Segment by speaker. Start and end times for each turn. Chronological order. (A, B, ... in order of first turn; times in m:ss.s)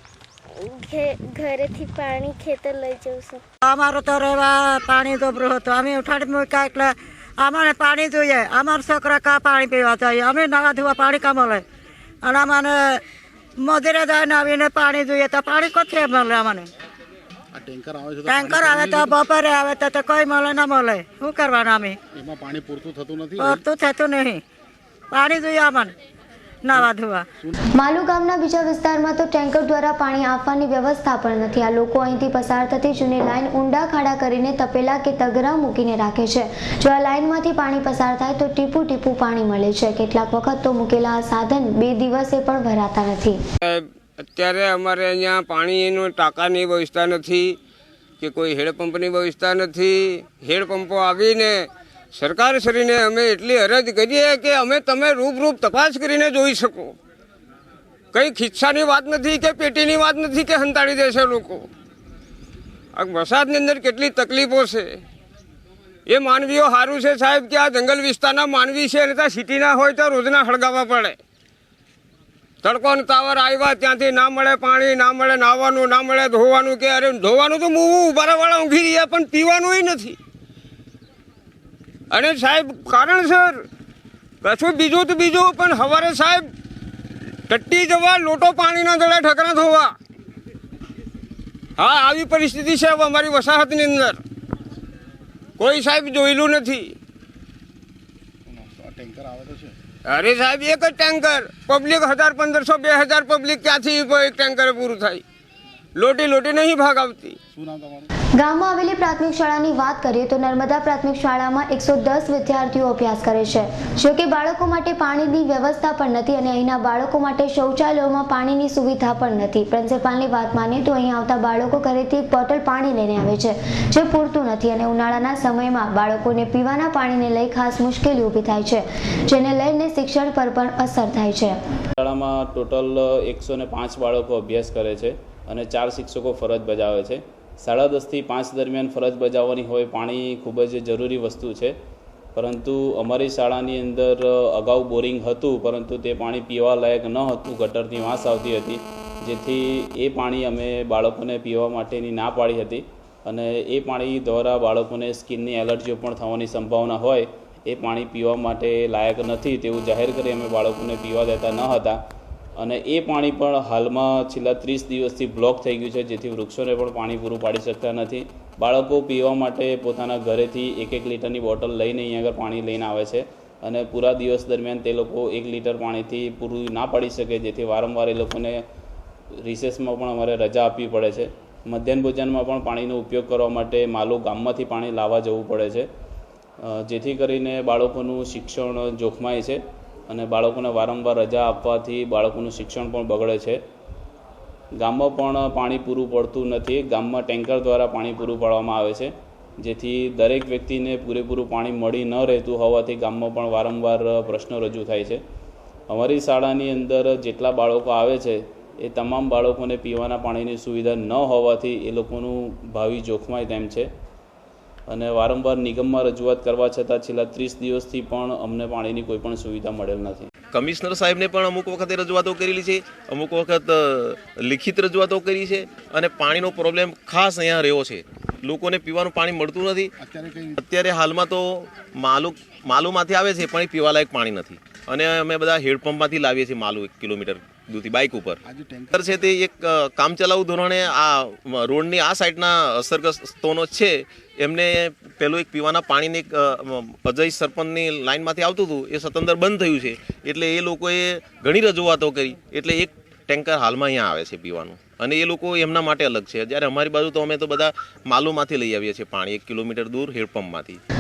0:00.5-0:03.4 A
0:03.7-0:11.6 B
0:12.2-0:13.0 B
0:13.6-0:16.7 B
0:17.5-0:19.2 C
0:18.2-0:22.0 B
0:22.2-0:23.6 C
0:23.4-0:24.4 B
0:25.1-0:25.9 B
0:26.6-0:27.3 B
0:27.8-0:43.4 D
0:43.6-0:47.6 E
0:48.2-0:57.0 E
0:58.1-1:01.7 E
1:03.0-1:04.9 E
1:06.1-1:11.2 E
1:12.6-1:20.2 E
1:22.1-1:23.6 E
1:24.4-1:26.4 E
1:27.5-1:29.9 E
1:31.8-1:34.2 E
1:35.6-1:36.9 E
1:38.5-1:39.8 C
1:40.1-1:45.2 E
1:46.0-1:47.4 E
1:47.6-1:48.1 C
1:48.4-2:11.6 D
2:12.0-2:21.7 F
2:22.4-2:42.0 F
2:42.6-2:58.6 F
2:59.4-3:05.9 F
3:06.6-3:13.6 F
3:14.8-3:25.2 F
3:25.9-3:33.9 F
3:34.9-3:40.3 F
3:40.5-3:49.9 G
3:50.0-3:50.6 C
3:50.6-3:58.4 G
3:58.5-3:59.0 C
3:59.0-4:20.8 G